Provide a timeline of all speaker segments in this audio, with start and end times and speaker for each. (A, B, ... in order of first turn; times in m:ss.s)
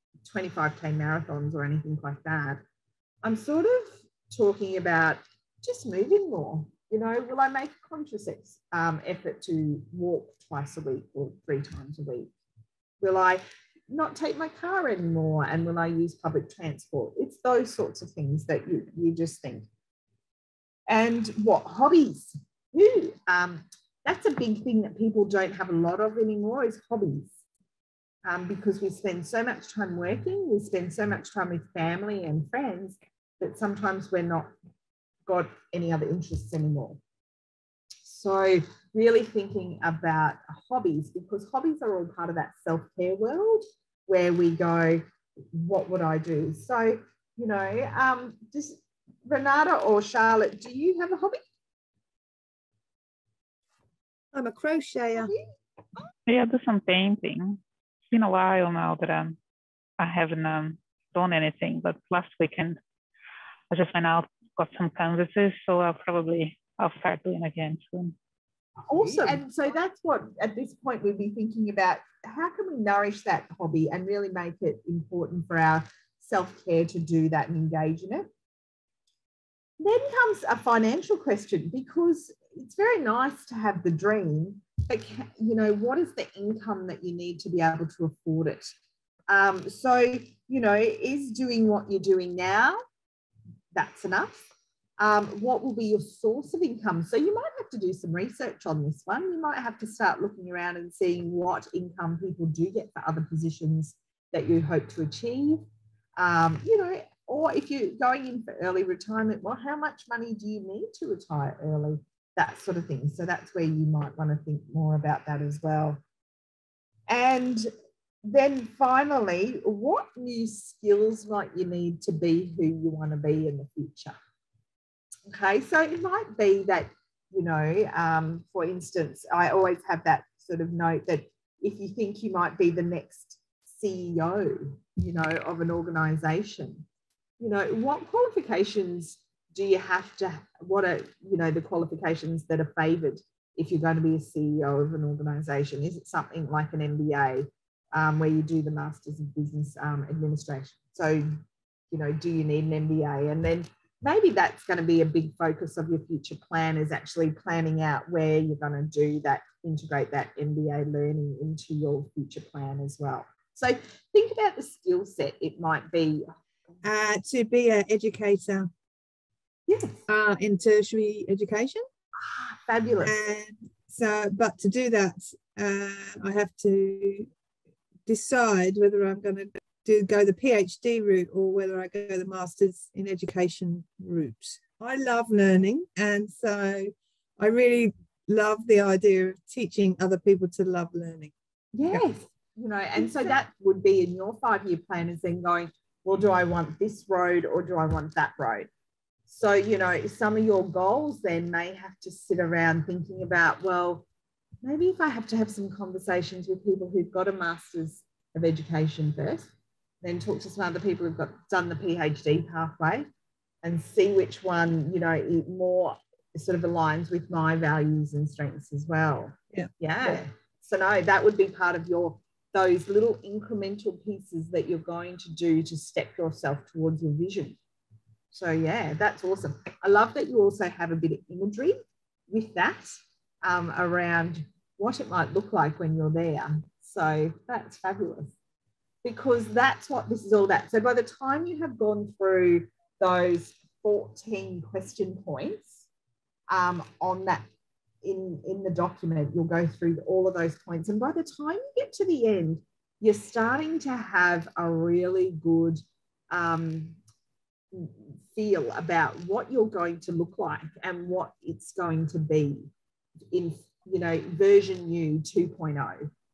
0:00.2-0:02.6 A
0:03.2-0:12.3 A
0:13.0-0:19.7 A
0:20.9-0:27.4 A
0:28.2-0:34.5 A
0:35.2-0:37.0 A
0:38.0-0:51.4 A
0:54.3-0:55.3 B
0:56.3-0:59.4 C
1:00.0-1:02.8 C
1:03.7-1:08.1 C
1:08.8-1:18.3 A
1:19.8-1:28.7 A
1:29.3-1:32.8 A
1:33.7-1:45.6 A
1:46.2-1:56.0 A
1:57.1-1:57.7 A
1:58.2-2:04.2 A
2:05.3-2:16.8 A
2:17.4-2:31.3 A
2:31.9-2:46.3 A
2:46.8-2:48.7 B
2:49.7-2:50.0 A
2:50.1-2:51.8 B
2:52.2-2:53.1 A
2:53.0-2:57.3 B
2:58.0-3:11.3 B
3:11.7-3:18.7 A
3:13.0-3:13.3 B
3:19.3-3:24.0 A
3:24.6-3:33.1 A
3:33.6-3:47.6 A
3:48.3-3:51.8 A
3:52.3-3:58.3 A
3:59.0-4:05.9 A
4:06.5-4:07.4 A
4:08.0-4:17.0 A
4:17.7-4:22.7 A
4:23.3-4:26.1 A